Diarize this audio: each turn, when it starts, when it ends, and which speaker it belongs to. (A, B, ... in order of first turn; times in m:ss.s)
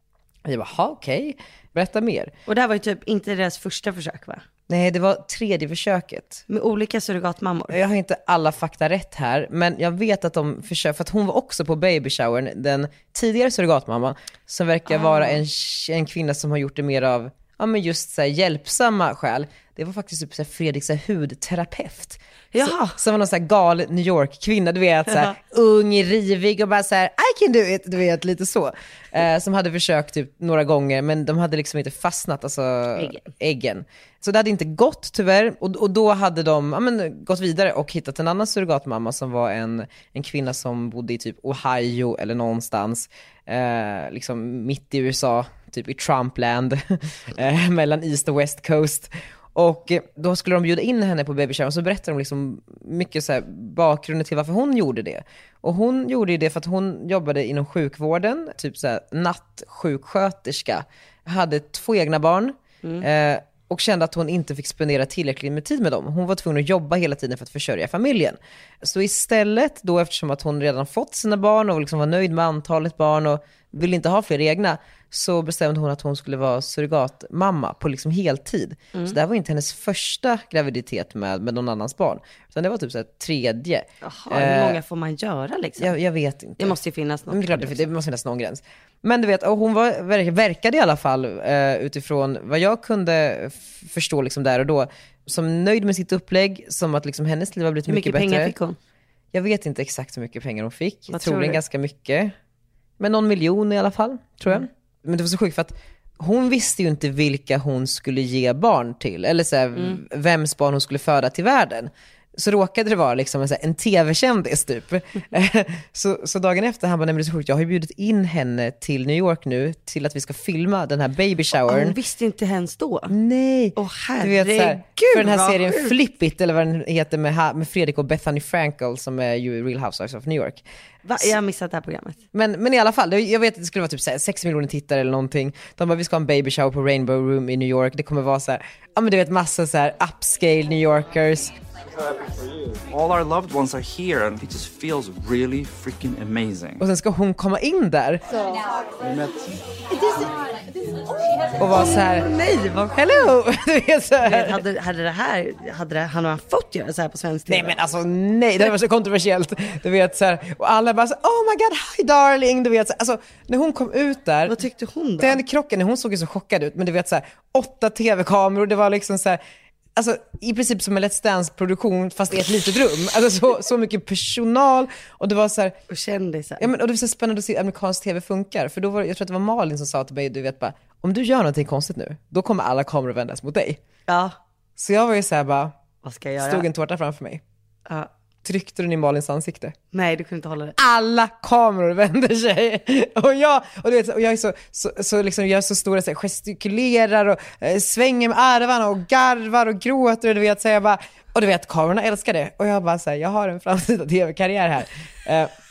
0:00.4-0:02.4 A
0:02.5-0:04.4 B
0:04.7-0:06.4 A
0:06.5-0:07.8 B
0:07.7-1:24.8 A
0:14.9-0:15.4 B
0:22.5-0:23.0 B
0:33.0-0:33.2 B
1:24.0-1:26.0 B
1:25.8-1:26.8 A
1:26.6-1:27.9 B
1:27.3-1:38.6 A
1:37.9-1:38.8 B
1:39.3-1:42.4 A
1:41.1-1:41.6 B
1:43.0-2:02.0 A
2:01.5-2:03.2 B
2:03.1-2:10.6 A
2:03.8-2:06.0 B
2:11.0-2:12.2 B
2:12.3-2:21.6 A
2:22.9-2:26.8 C
2:26.8-2:28.2 A
2:29.0-2:29.6 C
2:31.6-2:32.3 A
2:31.7-2:33.3 B
2:32.9-2:34.6 A
2:34.2-2:37.8 B
2:37.5-2:44.6 A
2:44.5-2:45.4 B
2:45.2-2:49.4 A
2:50.0-2:55.8 A
2:55.9-2:56.7 B
2:56.6-3:03.8 A
3:04.1-3:04.4 B
3:04.8-3:05.7 A
3:06.0-3:06.7 B
3:06.4-3:07.4 A
3:08.4-3:09.8 A
3:09.9-3:10.8 B
3:10.8-3:25.5 A